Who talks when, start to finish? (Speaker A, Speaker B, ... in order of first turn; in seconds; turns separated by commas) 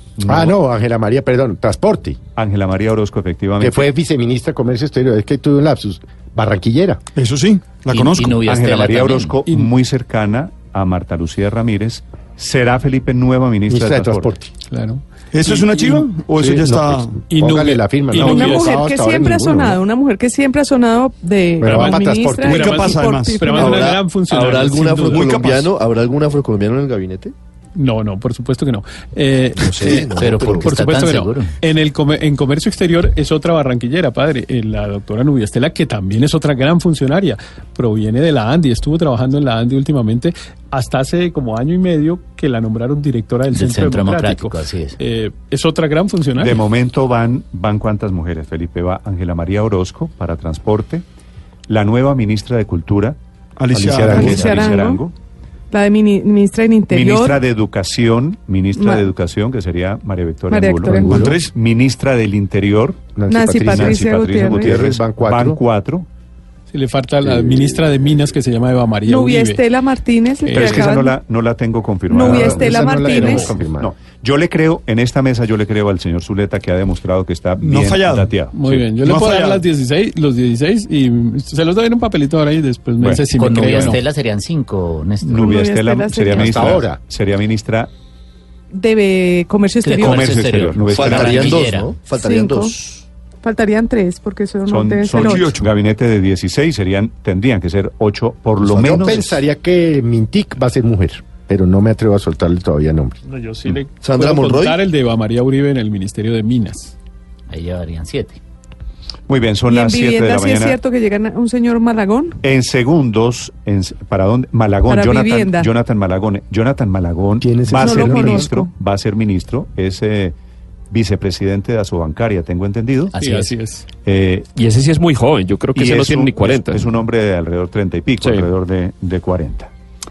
Speaker A: 0.2-0.5, Speaker B: 0.3-2.2, Speaker A: 2.4-3.9, Speaker B: 3.6-7.0, Speaker C: 7.2-8.5, Speaker D: 7.9-9.4, Speaker A: 8.4-14.3, Speaker E: 9.5-9.7, Speaker B: 13.7-14.5, Speaker E: 14.7-16.1, Speaker C: 15.3-17.2, Speaker B: 16.5-19.8, Speaker E: 17.3-18.8, Speaker F: 18.3-23.8, Speaker B: 21.6-22.6, Speaker E: 21.7-25.5, Speaker C: 22.5-23.5, Speaker G: 23.5-27.3, Speaker C: 25.1-25.7, Speaker E: 27.8-46.6, Speaker G: 29.6-30.7, Speaker D: 30.1-31.5, Speaker D: 43.5-45.0, Speaker A: 46.4-51.0, Speaker A: 51.7-53.2, Speaker C: 53.6-54.5, Speaker B: 53.7-54.6, Speaker F: 54.1-55.0, Speaker A: 54.1-55.1, Speaker F: 55.7-57.4, Speaker A: 56.9-63.1, Speaker F: 58.8-59.1, Speaker F: 60.5-61.2, Speaker B: 60.9-61.4, Speaker C: 61.1-61.5, Speaker B: 63.1-64.0, Speaker F: 63.3-64.7, Speaker A: 63.7-66.1, Speaker B: 64.6-65.6, Speaker E: 66.7-69.7, Speaker B: 67.2-67.8, Speaker F: 69.1-71.2, Speaker E: 70.5-70.9, Speaker A: 70.5-78.7, Speaker F: 72.1-73.5, Speaker B: 72.2-73.9, Speaker C: 77.6-78.3, Speaker E: 78.5-84.0, Speaker C: 78.9-79.6, Speaker D: 83.3-85.5, Speaker A: 85.2-87.9, Speaker F: 85.3-86.8, Speaker B: 86.3-87.0, Speaker F: 88.7-90.2, Speaker D: 89.8-92.0, Speaker A: 90.1-91.6, Speaker G: 90.9-93.0, Speaker F: 92.2-92.7, Speaker F: 93.4-95.5, Speaker A: 94.7-99.3, Speaker C: 95.1-95.7, Speaker G: 98.6-99.4, Speaker B: 98.8-103.2, Speaker E: 103.2-106.9, Speaker G: 104.0-104.8, Speaker D: 107.5-108.4, Speaker A: 109.3-110.8, Speaker F: 109.7-112.4, Speaker A: 112.4-120.3, Speaker F: 114.9-115.7, Speaker B: 117.4-118.5, Speaker F: 117.8-118.7, Speaker A: 120.9-123.1, Speaker D: 123.1-123.5, Speaker E: 123.2-123.9, Speaker A: 124.0-124.5, Speaker H: 124.6-126.9, Speaker A: 125.7-129.7, Speaker H: 128.2-128.5